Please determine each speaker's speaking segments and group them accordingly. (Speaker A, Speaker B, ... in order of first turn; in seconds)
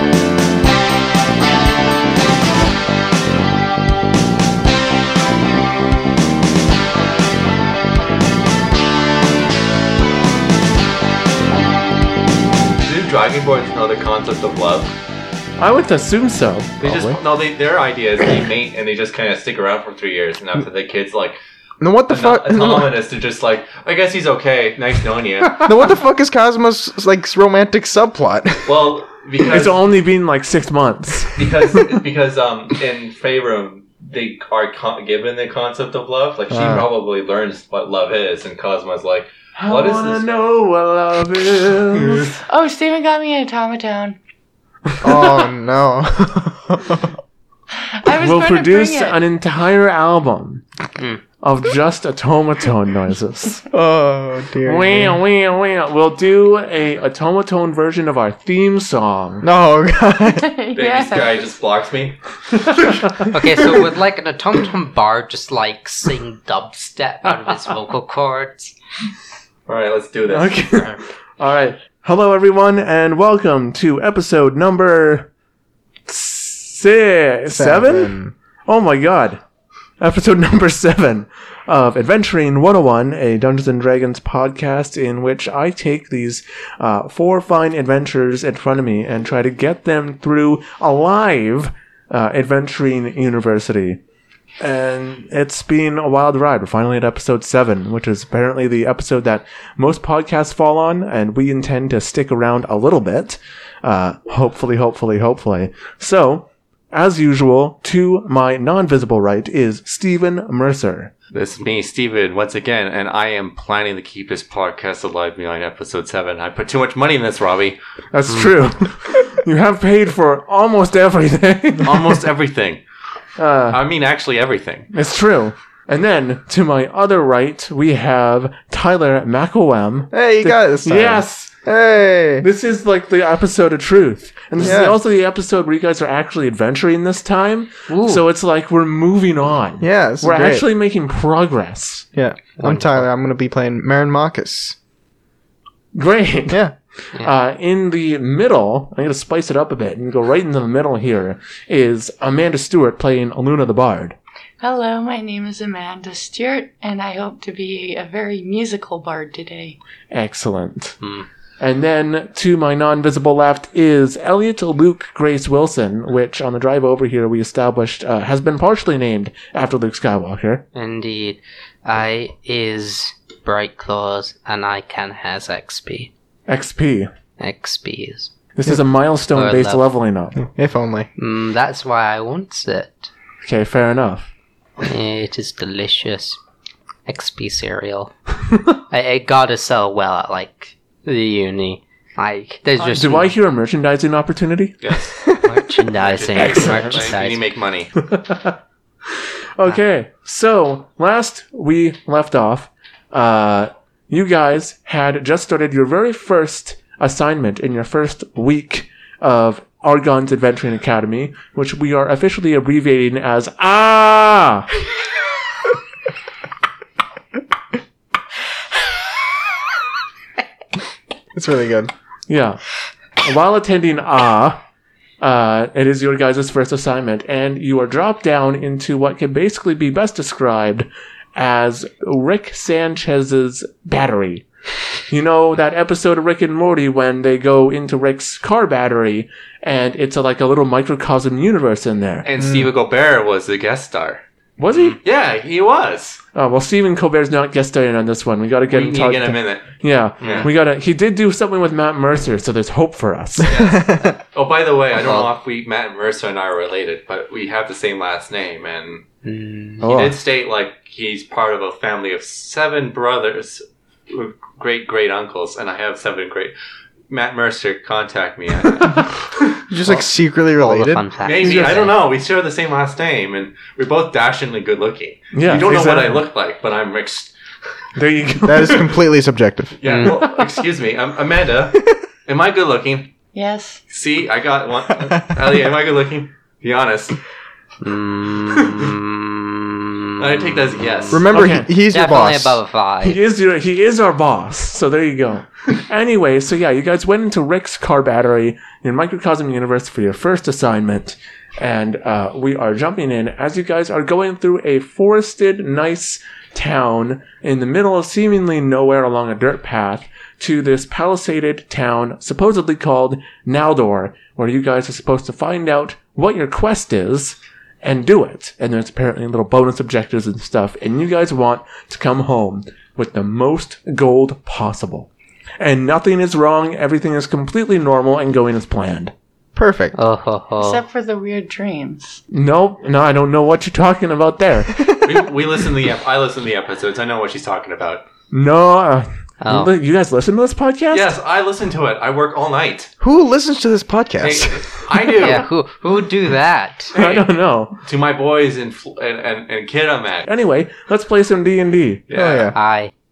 Speaker A: 12.8-14.9, 16.8-21.4, 22.1-25.7, 28.6-29.8, 31.4-40.2, 60.7-62.2, 69.7-70.9, 111.3-117.8, 121.8-122.8, 123.7-124.9, 194.8-195.2, 196.0-197.9, 242.2-244.2, 244.9-246.2, 248.7-249.7, 250.2-250.5, 253.5-259.0, 259.8-266.5, 267.1-269.6, 271.2-277.3, 279.8-283.1, 283.9-287.2, 288.5-288.9, 290.2-291.3, 335.0-338.0, 340.9-342.9, 344.2-345.5, 346.9-347.2, 347.8-350.3, 352.1-352.5
Speaker B: 15.6-17.2, 29.5-31.9, 36.5-36.9, 39.6-42.4, 48.1-50.6, 51.4-53.6, 54.6-59.5, 62.6-63.3, 70.3-75.3, 76.1-78.1, 78.7-79.4, 80.0-94.0, 94.6-111.1, 118.1-122.2, 123.4-123.8, 124.9-131.5, 132.4-142.1, 145.9-154.2, 160.1-161.0, 161.6-170.6, 176.5-177.1, 178.6-180.4, 183.4-184.3, 192.8-194.9, 196.4-197.1, 198.0-198.6, 199.6-214.7, 222.3-222.6, 223.2-224.6, 225.2-234.4, 235.1-242.3, 244.6-245.0, 246.3-253.6, 259.8-260.2, 275.3-276.3, 277.9-278.9, 280.1-280.5, 291.3-291.7, 293.0-325.1, 325.6-329.1, 332.3-334.9, 338.3-341.1, 346.9-347.8, 350.3-352.0
Speaker C: 21.8-22.9, 25.6-28.9, 45.0-47.1, 53.7-55.2, 59.4-60.5, 77.5-78.3, 130.1-132.5, 134.6-135.0, 139.8-140.6, 142.1-144.8, 146.5-146.7, 180.4-181.1, 221.3-221.9, 253.4-254.2, 269.7-271.0, 278.4-279.8, 291.1-292.6, 329.6-329.9, 343.0-345.3, 352.1-352.6
Speaker D: 42.5-44.2, 47.9-49.2, 60.2-61.5, 154.6-159.8, 283.3-283.8, 330.6-332.2
Speaker E: 63.3-68.7, 137.9-138.2, 161.0-161.3, 170.7-176.1, 177.4-178.3, 179.3-179.9, 181.2-183.1, 184.8-186.4, 187.1-188.1, 188.9-193.3, 195.4-197.4, 250.2-250.5, 255.0-255.3, 259.2-259.9, 270.6-271.9, 279.8-280.2, 287.8-291.3, 291.9-293.2, 329.9-330.8, 339.4-339.7, 345.2-346.9, 352.5-352.9